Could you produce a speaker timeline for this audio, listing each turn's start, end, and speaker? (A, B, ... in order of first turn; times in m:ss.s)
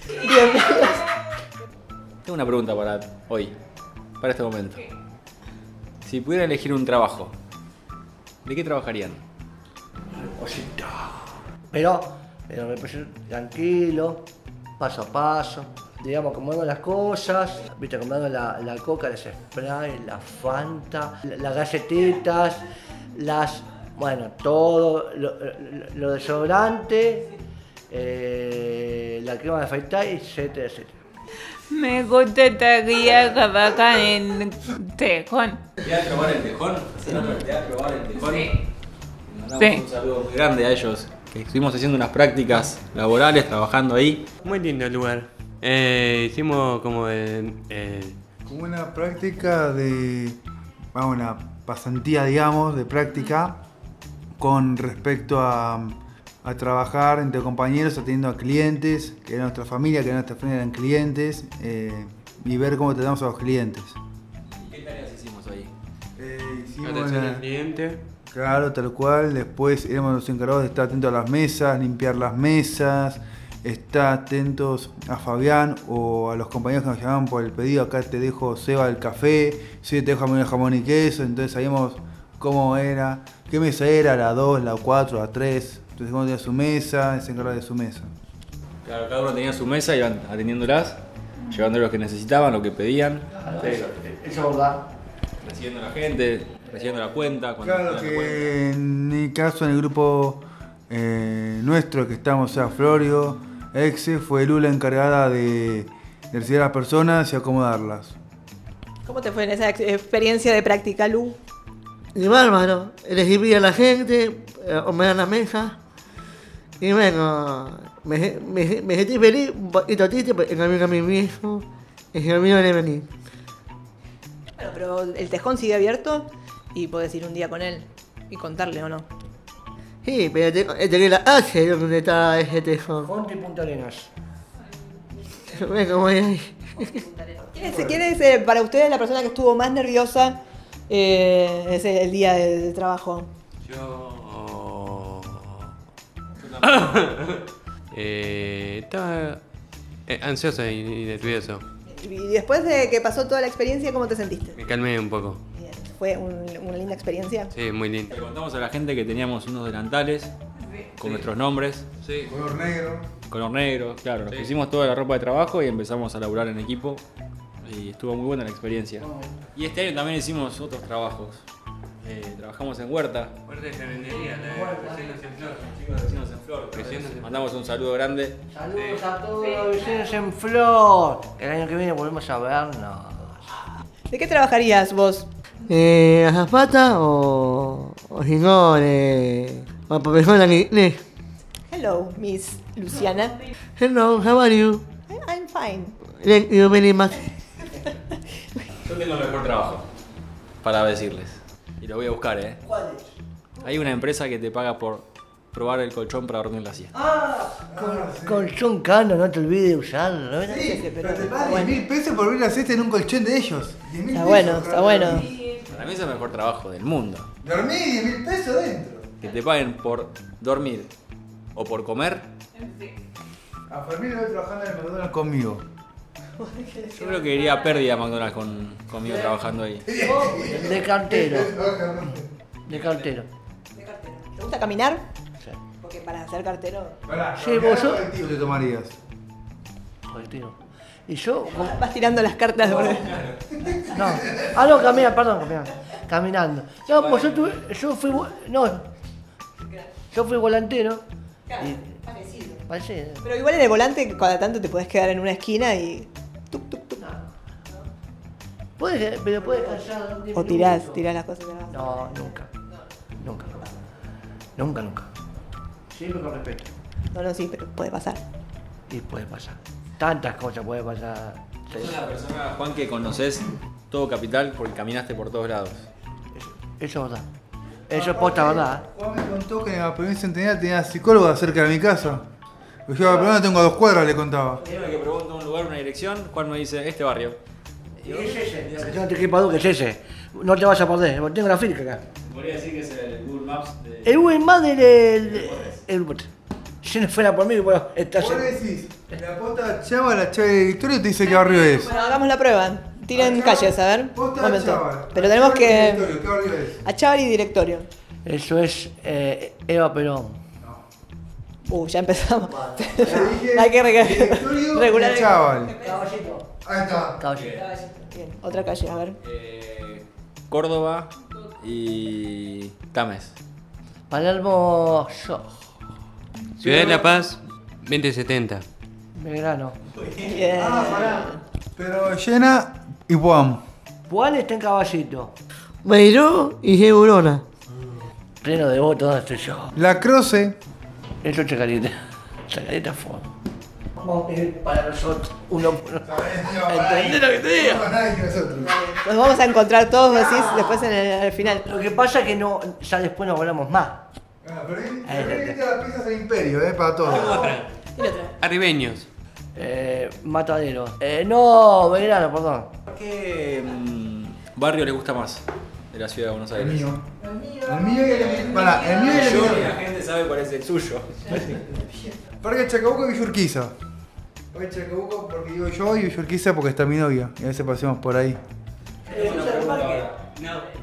0:00.2-0:01.0 A
0:02.2-0:03.6 B
0:04.2-0:04.9 B
0:06.0-0:07.3 B
0:08.4-0:09.2 B
0:10.2-0:14.2 C
0:14.8-0:22.6 C
0:23.2-0:27.3 C
0:27.9-0:30.9 C
0:31.7-0:35.6 D
0:35.8-0:38.6 B
0:39.3-0:44.2 B
0:44.4-0:48.2 E
0:48.5-0:50.4 F
0:50.9-0:53.6 F
0:54.4-1:04.0 F
1:04.5-1:05.7 B
1:06.2-1:07.4 F
1:06.8-1:08.0 E
1:08.3-1:28.1 F
1:28.8-1:31.0 B
1:31.5-1:33.8 B
1:33.3-1:34.9 C
1:35.4-1:38.5 B
1:37.6-1:48.2 F
1:49.0-1:51.4 A
1:52.2-1:55.8 G
1:56.8-2:03.1 G
2:04.6-2:09.1 A
2:10.0-2:13.1 G
2:13.0-2:14.1 C
2:15.5-2:17.0 G
2:17.5-2:23.3 A
2:17.6-2:18.0 F
2:23.7-2:25.7 E
2:26.4-2:27.2 B
2:26.6-2:29.4 E
2:30.1-2:31.6 E
2:31.8-2:34.6 A
2:34.6-2:35.4 E
2:35.6-2:37.5 A
2:37.5-2:38.1 E
2:38.1-2:40.3 B
2:41.0-2:41.9 B
2:42.0-2:42.3 E
2:42.3-2:43.1 F
2:43.3-2:47.0 B
2:44.3-2:44.5 E
2:47.6-2:51.4 B
2:49.0-2:49.3 C
2:52.0-2:53.3 B
2:53.5-2:55.7 E
2:54.4-2:55.2 C
2:55.6-2:58.4 B
2:56.7-2:57.4 E
2:58.5-3:03.6 C
2:58.7-2:59.1 E
3:04.1-3:05.3 A
3:05.7-3:11.0 G
3:11.7-3:13.4 A
3:13.8-3:14.8 G
3:15.1-3:16.0 A
3:16.1-3:17.2 G
3:18.8-3:19.9 B
3:20.6-3:22.6 B
3:22.6-3:23.2 C
3:23.6-3:26.9 B
3:26.9-3:30.8 C
3:27.7-3:28.5 F
3:30.4-3:35.4 F
3:30.6-3:31.8 A
3:34.1-3:35.3 A
3:35.7-3:37.3 B
3:37.4-3:39.1 F
3:39.2-3:40.9 B
3:41.6-3:42.3 B
3:43.7-3:45.6 F
3:46.4-3:47.9 A
3:46.9-3:49.9 B
3:49.0-3:49.3 C
3:49.8-3:52.3 F
3:50.0-3:51.5 C
3:52.6-3:53.3 C
3:52.7-3:53.1 B
3:53.7-3:55.0 A
3:55.8-3:57.0 A
3:57.1-3:59.0 F
3:57.4-3:58.1 C
4:00.1-4:01.8 C
4:01.5-4:03.2 A
4:02.9-4:03.3 B
4:03.9-4:08.9 C
4:06.9-4:07.6 B
4:10.1-4:11.0 C
4:11.5-4:12.6 A
4:12.7-4:13.3 C
4:13.2-4:17.1 A
4:18.8-4:21.0 C
4:19.4-4:19.8 A
4:20.3-4:22.4 A
4:21.7-4:22.5 C
4:23.2-4:23.8 C
4:24.6-4:25.1 C
4:25.9-4:26.7 C
4:27.1-4:28.2 A
4:28.9-4:32.0 C
4:31.7-4:35.9 B
4:36.3-4:37.3 C
4:37.9-4:38.8 C
4:37.9-4:42.3 F
4:42.9-4:44.6 F
4:43.0-4:43.3 C
4:44.6-4:47.4 B
4:44.7-4:45.0 C
4:48.0-4:52.0 C
4:48.0-4:49.2 B
4:52.2-4:54.4 B
4:54.0-4:56.3 C
4:55.2-4:55.8 B
4:56.8-4:58.5 C
4:58.2-5:02.0 F
5:01.7-5:06.2 A
5:03.1-5:06.8 F
5:06.8-5:07.9 A
5:08.2-5:10.4 C
5:11.7-5:16.0 A
5:12.5-5:13.0 C
5:13.0-5:15.8 F
5:15.8-5:16.5 C
5:16.6-5:17.2 F
5:17.2-5:17.7 C
5:17.3-5:17.7 B
5:18.1-5:19.2 A
5:19.2-5:23.3 B
5:24.1-5:25.6 C
5:26.6-5:28.6 E
5:26.6-5:27.2 C
5:29.2-5:29.8 C
5:30.2-5:31.4 A
5:30.6-5:33.6 F
5:34.1-5:35.3 C
5:35.8-5:37.4 G
5:38.4-5:39.7 C
5:39.8-5:40.6 F
5:41.2-5:42.0 C
5:42.5-5:43.3 C
5:44.0-5:47.9 C
5:46.0-5:48.7 F
5:48.6-5:51.7 A
5:50.3-5:50.6 C
5:51.5-5:54.1 C
5:54.4-5:57.4 F
5:55.0-5:55.6 C
5:57.0-5:57.7 E
5:58.0-5:58.3 A
5:58.4-5:59.1 E
5:59.6-6:02.7 C
6:02.9-6:06.9 B
6:06.5-6:07.1 F
6:07.6-6:09.8 F
6:08.0-6:11.8 B
6:12.4-6:13.7 F
6:14.5-6:18.4 F
6:19.1-6:20.1 C
6:19.1-6:20.2 B
6:20.3-6:20.6 E